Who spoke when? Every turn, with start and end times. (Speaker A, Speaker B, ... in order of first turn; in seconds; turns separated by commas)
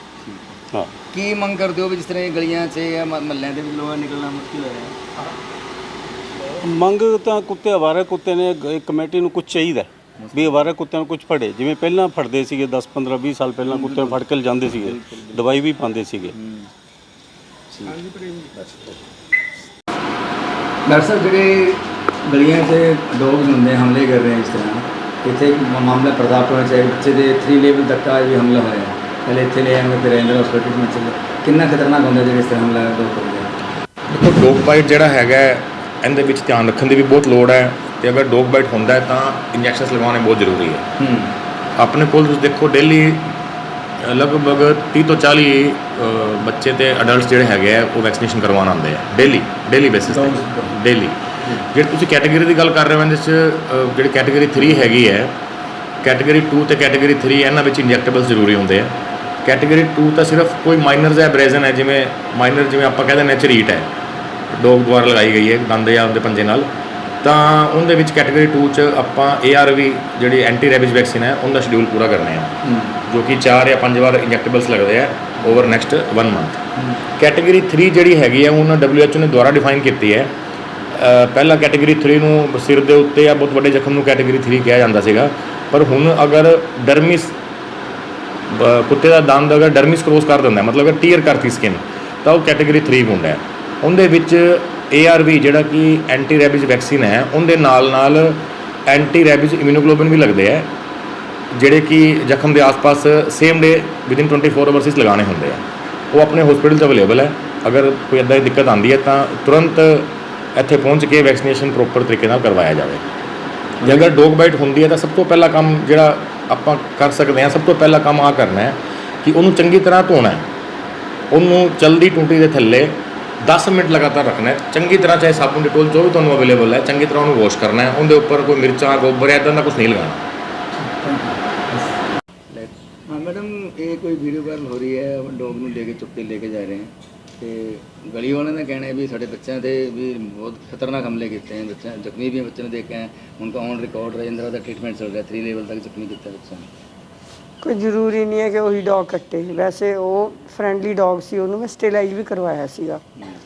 Speaker A: 0.2-0.6, Speaker A: 1.1-5.0, Speaker B: 6.6-16.3, Speaker A: 10.2-10.7, Speaker A: 13.6-14.2, Speaker A: 14.7-15.4, Speaker A: 16.3-16.7, Speaker A: 17.7-19.0, Speaker A: 20.9-33.5, Speaker C: 34.1-40.8, Speaker A: 41.0-41.4, Speaker C: 41.8-43.3, Speaker C: 44.0-55.4, Speaker A: 50.1-50.8, Speaker C: 56.0-63.9, Speaker C: 64.5-66.7, Speaker C: 67.2-72.5, Speaker A: 72.7-72.9, Speaker C: 73.1-76.6, Speaker C: 77.2-80.3, Speaker C: 80.9-87.4, Speaker C: 88.5-100.7, Speaker C: 101.5-105.6, Speaker C: 106.1-113.0, Speaker C: 113.8-120.5, Speaker A: 113.8-114.1, Speaker C: 121.3-130.2, Speaker A: 131.0-131.9, Speaker A: 132.5-146.7, Speaker D: 147.6-153.0